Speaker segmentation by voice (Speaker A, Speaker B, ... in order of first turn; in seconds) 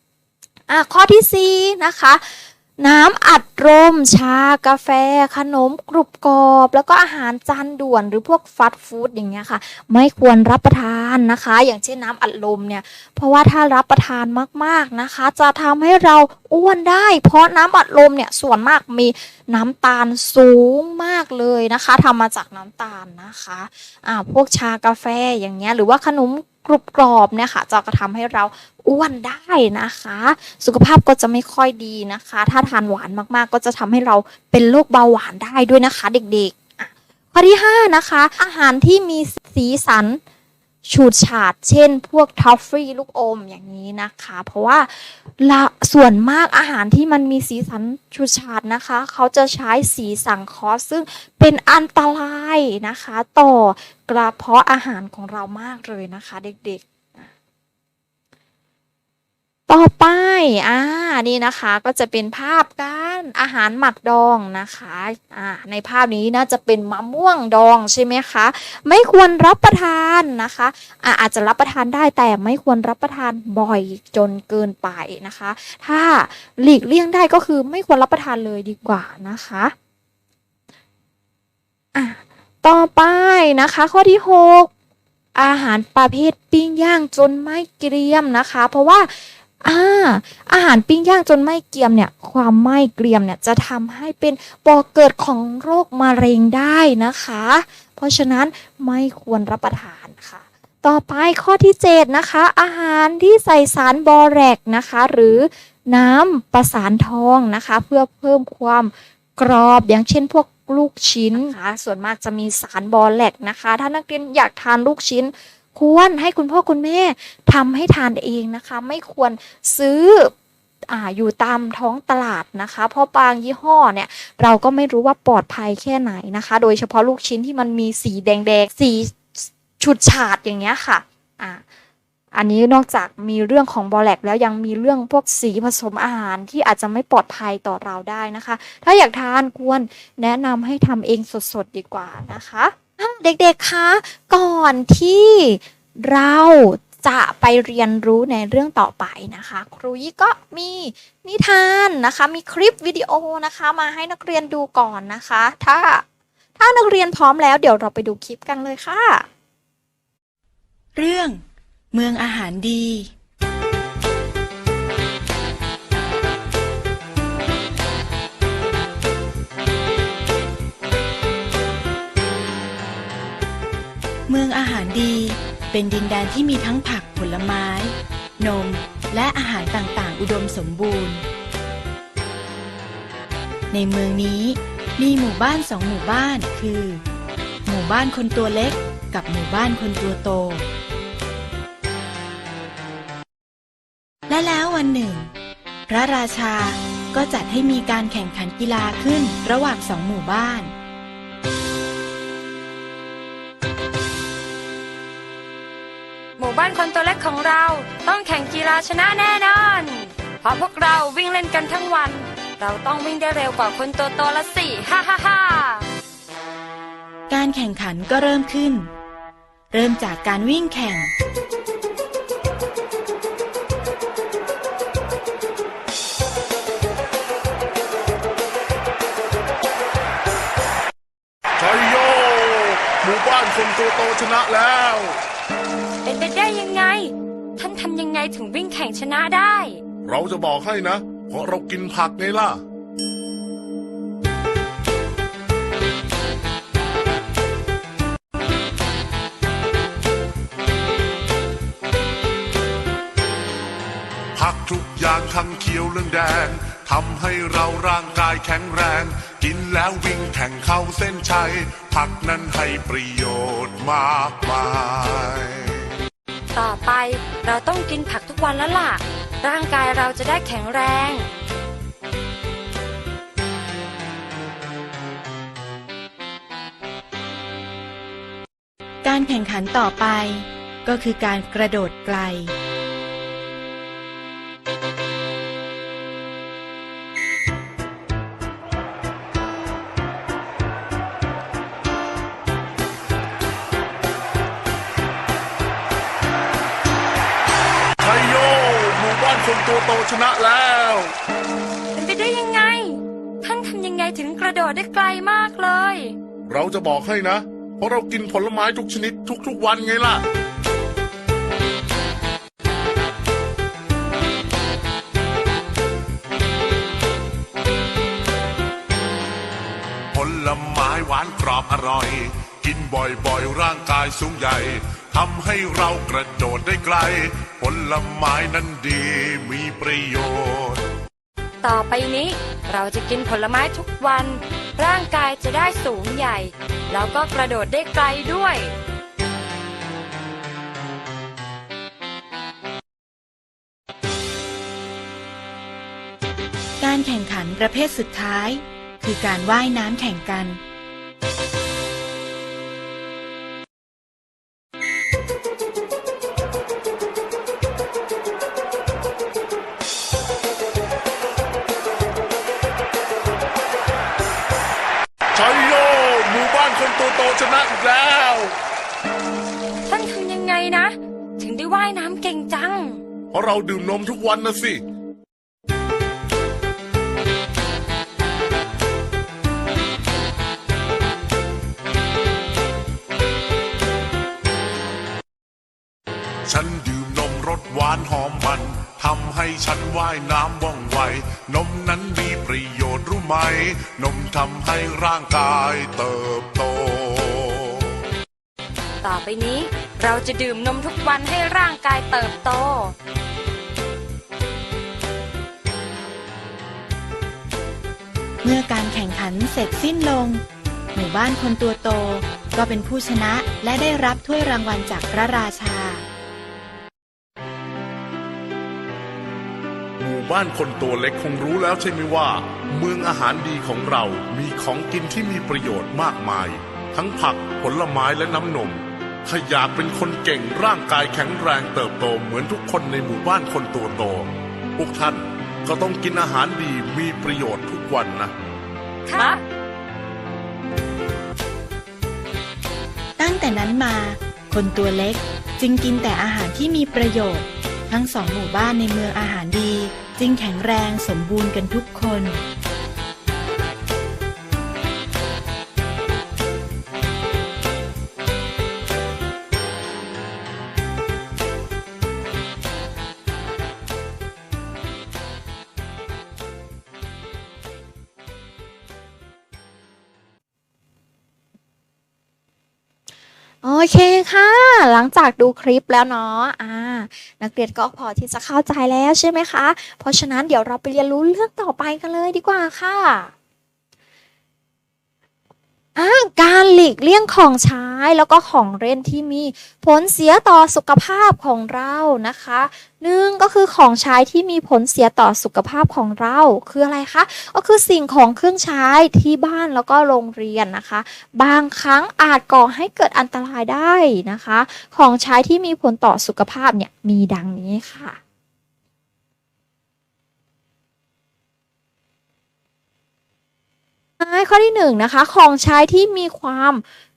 Speaker A: 0.7-40.2, 40.9-57.2, 59.7-79.7, 81.9-84.7, 85.3-120.3, 120.9-131.6, 132.3-156.0, 156.6-159.2, 473.6-483.3, 485.9-508.2, 514.2-516.8
Speaker B: 160.9-161.4, 161.9-163.1, 174.3-181.2, 183.7-187.0, 187.7-190.7, 194.3-195.3, 195.9-200.7, 217.3-218.9, 219.7-221.1, 279.0-282.5, 346.8-350.6, 408.4-416.0, 443.2-452.4
Speaker C: 206.4-215.8, 236.0-239.8, 266.5-271.3, 301.9-306.1, 331.6-338.7, 369.9-373.0, 399.0-402.9, 439.1-439.4
Speaker D: 231.6-235.2, 240.0-242.6, 254.3-265.8, 298.0-301.1, 306.5-310.2, 320.1-330.9, 365.3-368.6, 373.3-374.8, 386.4-398.0, 420.0-438.3